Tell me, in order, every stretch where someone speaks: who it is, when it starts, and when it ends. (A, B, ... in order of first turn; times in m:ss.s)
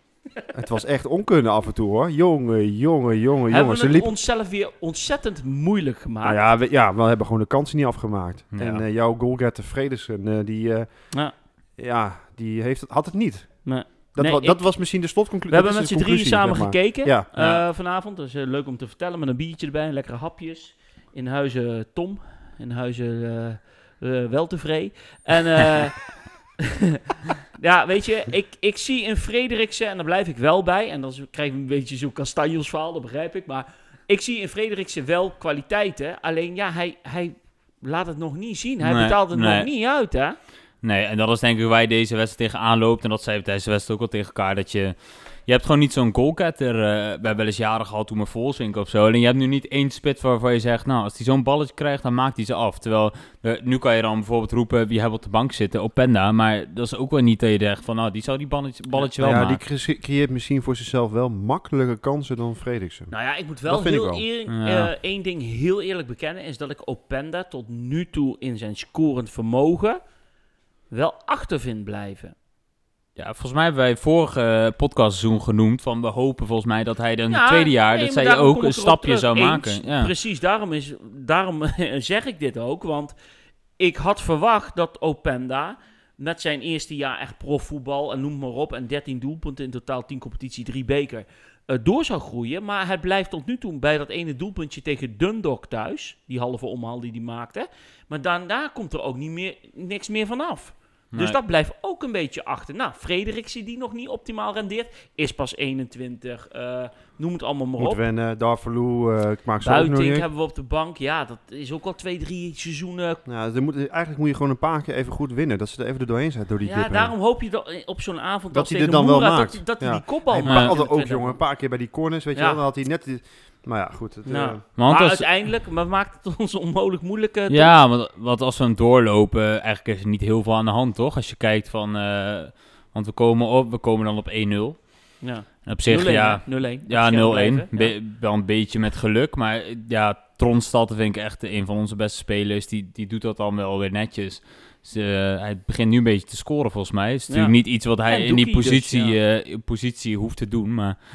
0:00.5-0:04.1 A
0:03.5-0:06.4 B
0:06.2-0:17.3 A
0:08.5-0:08.8 C
0:13.6-0:15.0 B
0:15.5-0:26.2 B
0:17.4-0:17.6 C
0:27.5-0:40.4 B
0:38.8-0:39.7 C
0:40.8-0:59.6 C
0:58.9-0:59.5 B
0:59.2-1:03.1 A
1:03.1-1:10.0 B
1:03.7-1:04.2 A
1:04.5-1:04.9 C
1:10.9-1:12.3 B
1:13.2-1:20.1 C
1:17.3-1:23.1 B
1:23.8-1:48.0 B
1:47.8-1:50.3 A
1:49.6-1:53.2 B
1:53.3-1:57.1 A
1:56.6-2:01.4 B
1:58.5-2:04.6 A
2:00.4-2:00.7 C
2:02.4-2:02.6 B
2:04.3-2:07.8 B
2:04.8-2:05.3 C
2:07.5-2:31.0 C
2:15.2-2:18.0 B
2:27.3-2:29.2 B